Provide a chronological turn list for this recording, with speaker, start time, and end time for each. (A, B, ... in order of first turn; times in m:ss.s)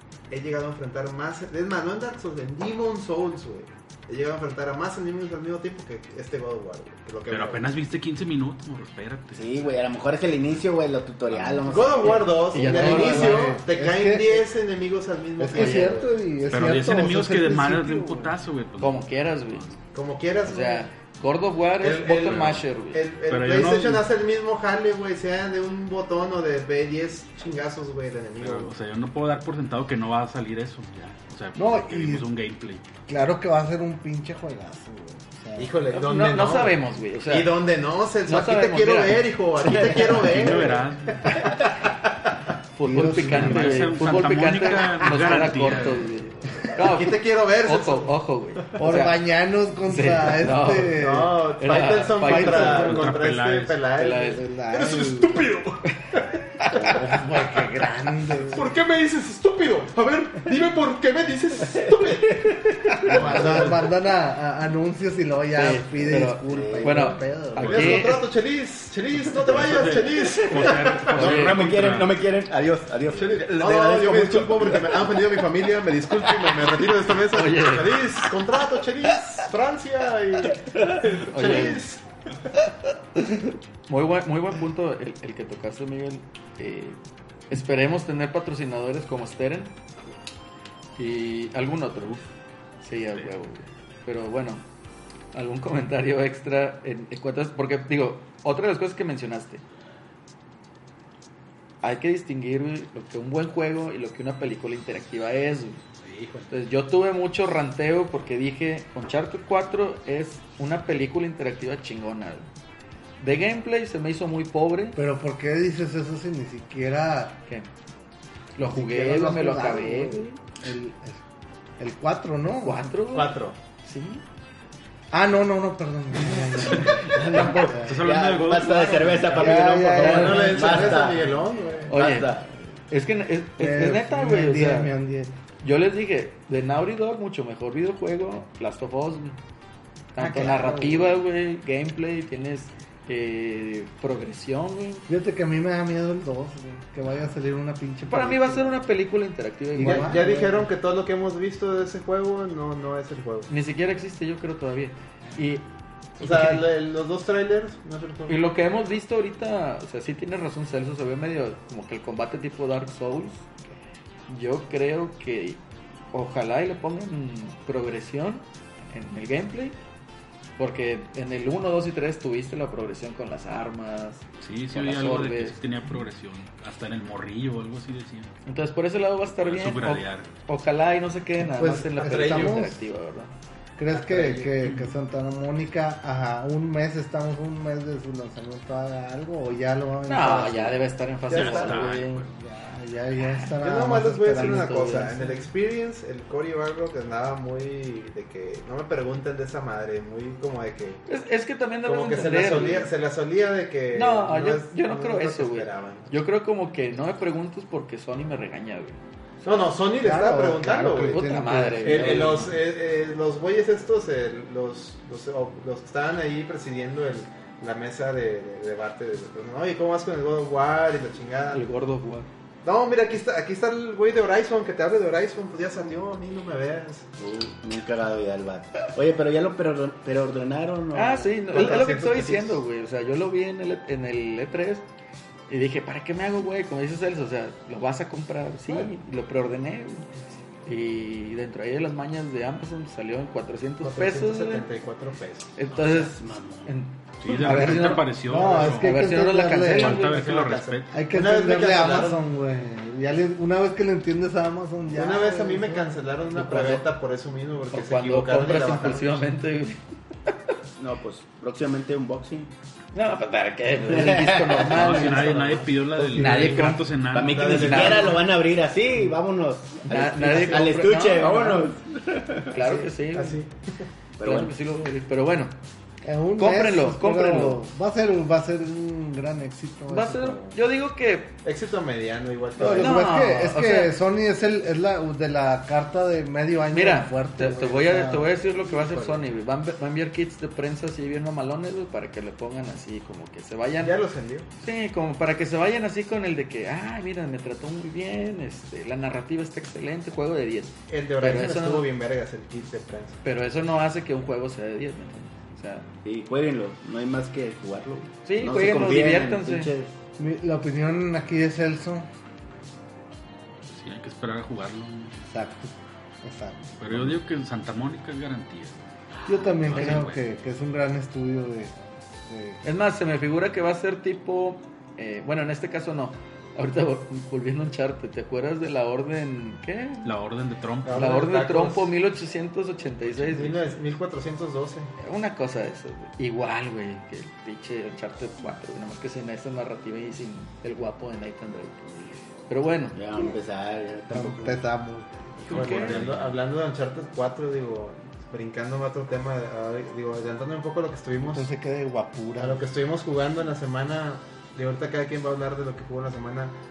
0:00.3-0:07.7 A
0:07.3-0:09.8 B
0:09.4-0:12.3 C
0:11.3-0:11.9 B
0:11.7-0:16.1 A
0:12.5-0:13.5 D
0:12.6-0:14.5 E
0:15.4-0:18.4 E
0:15.6-0:16.0 D
0:16.5-0:19.8 B
0:18.8-0:19.8 D
0:19.9-0:20.9 A
0:20.5-0:23.0 D
0:21.8-0:28.7 A
0:22.1-0:22.6 B
0:23.3-0:24.0 B
0:28.4-0:32.8 B
0:31.6-0:32.3 E
0:33.1-0:35.7 E
0:35.6-0:42.3 A
0:35.9-0:37.5 D
0:38.3-0:39.3 D
0:39.6-0:40.8 C
0:40.1-0:41.5 B
0:42.8-0:49.2 D
0:42.8-0:44.4 E
0:43.1-0:46.1 B
0:46.7-0:48.1 A
0:48.8-0:51.5 E
0:49.9-0:51.0 D
0:50.8-0:56.2 A
0:51.6-0:53.1 D
0:52.2-0:53.1 E
0:52.7-0:53.8 B
0:54.0-0:54.4 D
0:54.2-0:55.5 E
0:56.7-0:58.8 E
0:58.5-1:03.9 A
1:01.7-1:03.4 C
1:03.0-1:03.7 B
1:03.1-1:07.9 E
1:05.6-1:08.3 D
1:06.5-1:07.1 C
1:07.6-1:08.0 B
1:07.6-1:11.3 A
1:09.4-1:12.2 B
1:10.4-1:15.4 C
1:11.1-1:11.6 D
1:13.1-1:22.0 A
1:17.3-1:18.0 D
1:21.3-1:21.8 D
1:23.2-1:27.0 D
1:27.5-1:29.8 D
1:31.0-1:32.3 D
1:32.8-1:34.6 D
1:35.3-1:39.6 D
1:41.8-1:45.8 D
1:46.0-1:46.5 A
1:46.5-1:52.5 D
1:53.2-1:55.0 D
1:55.0-1:57.4 E
1:58.6-2:00.3 D
1:58.6-2:01.2 E
2:01.8-2:02.9 E
2:02.6-2:04.2 D
2:03.1-2:03.6 A
2:05.1-2:08.0 E
2:06.8-2:09.6 B
2:07.1-2:11.3 C
2:09.3-2:11.4 E
2:09.7-2:10.5 D
2:10.0-2:11.9 A
2:11.9-2:12.3 D
2:11.9-2:12.5 C
2:12.9-2:14.9 D
2:13.6-2:15.3 E
2:15.6-2:19.4 D
2:20.1-2:25.1 D
2:20.2-2:21.2 E
2:25.1-2:28.8 E
2:28.1-2:30.2 D
2:29.7-2:30.7 E
2:29.8-2:33.5 A
2:33.5-2:35.7 D
2:36.2-2:36.6 D
2:36.2-2:38.4 A
2:38.3-2:43.5 D
2:44.3-2:45.6 D
2:46.1-2:49.8 D
2:50.6-2:55.6 D
2:54.4-2:58.3 B
2:58.5-3:03.3 D
2:59.3-3:00.3 B
3:01.4-3:02.9 E
3:02.0-3:02.6 A
3:03.8-3:10.8 E
3:03.9-3:04.6 A
3:10.1-3:12.3 D
3:11.3-3:12.3 B
3:11.3-3:11.8 A
3:12.4-3:15.3 E
3:13.6-3:21.0 A
3:14.3-3:15.2 D
3:21.1-3:22.9 D
3:21.8-3:26.1 A
3:23.9-3:29.0 D
3:29.4-3:31.2 A
3:30.0-3:32.5 E
3:31.0-3:32.5 D
3:31.8-3:41.6 A
3:41.5-3:42.3 D
3:42.6-3:47.1 A
3:47.2-3:51.7 C
3:50.9-3:54.8 D
3:51.5-3:52.6 A
3:55.5-4:00.1 D
4:00.7-4:04.7 D
4:03.8-4:05.5 A
4:05.6-4:10.2 D
4:05.7-4:06.7 C
4:07.2-4:09.0 B
4:07.4-4:10.1 E
4:09.7-4:11.0 B
4:10.1-4:12.2 A
4:10.9-4:15.9 E
4:14.9-4:19.2 A
4:16.3-4:16.9 D
4:17.7-4:19.8 D
4:20.8-4:22.5 C
4:22.9-4:26.8 D
4:23.8-4:25.4 C
4:24.7-4:28.0 B
4:26.1-4:32.6 C
4:27.2-4:28.3 A
4:27.5-4:28.2 D
4:29.9-4:31.7 D
4:30.3-4:30.7 A
4:32.5-4:33.4 D
4:32.6-4:33.5 A
4:34.2-4:34.5 C
4:34.2-4:35.6 D
4:36.0-4:40.6 E
4:36.4-4:37.6 D
4:39.9-4:41.3 D
4:41.4-4:43.0 A
4:42.6-4:48.4 E
4:42.8-4:43.9 D
4:46.7-4:54.0 D
4:48.6-4:49.2 A
4:53.8-4:54.5 A
4:54.6-5:01.9 D
5:00.9-5:03.2 A
5:03.2-5:05.9 D
5:06.0-5:09.9 C
5:08.2-5:09.7 D
5:10.2-5:12.1 E
5:13.7-5:15.2 B
5:15.3-5:17.2 E
5:16.8-5:18.8 B
5:19.3-5:22.6 E
5:19.6-5:20.2 B
5:19.8-5:20.1 D
5:22.6-5:30.1 D
5:30.0-5:31.2 B
5:30.8-5:31.9 A
5:30.9-5:33.6 D
5:33.2-5:33.8 B
5:33.3-5:34.9 A
5:35.0-5:43.0 D
5:43.0-5:44.6 C
5:44.1-5:45.3 E
5:45.4-5:46.0 D
5:45.5-5:51.5 A
5:45.5-5:46.4 B
5:51.2-5:52.6 E
5:52.4-5:56.6 A